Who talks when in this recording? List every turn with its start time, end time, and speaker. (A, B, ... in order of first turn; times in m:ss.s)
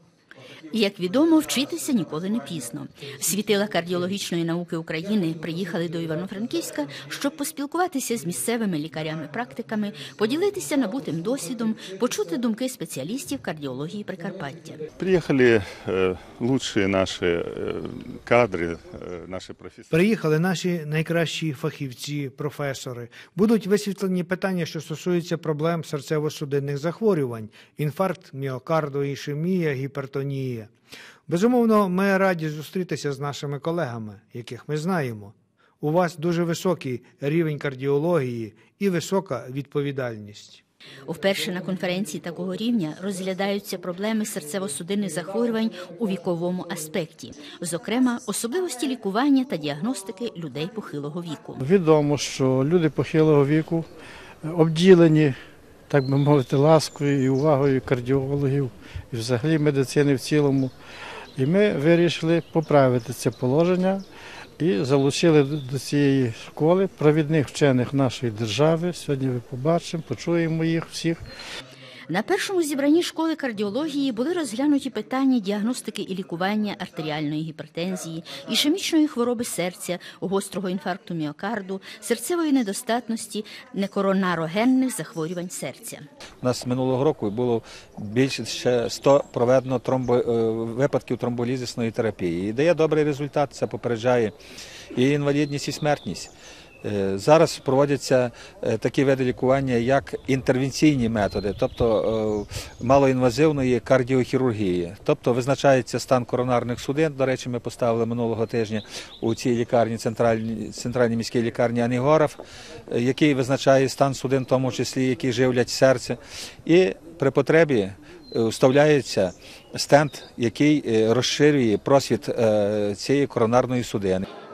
0:00.7-0:14.8 A
0:15.0-0:20.0 B
0:19.9-0:30.7 C
0:31.3-0:40.6 C
0:41.0-0:51.6 A
0:51.6-0:53.9 D
0:54.4-0:55.4 D
0:55.9-1:00.7 D
1:01.4-1:04.0 D
1:04.6-1:11.2 D
1:12.1-1:26.1 A
1:26.4-1:34.3 E
1:34.9-1:36.3 E
1:36.8-2:04.2 E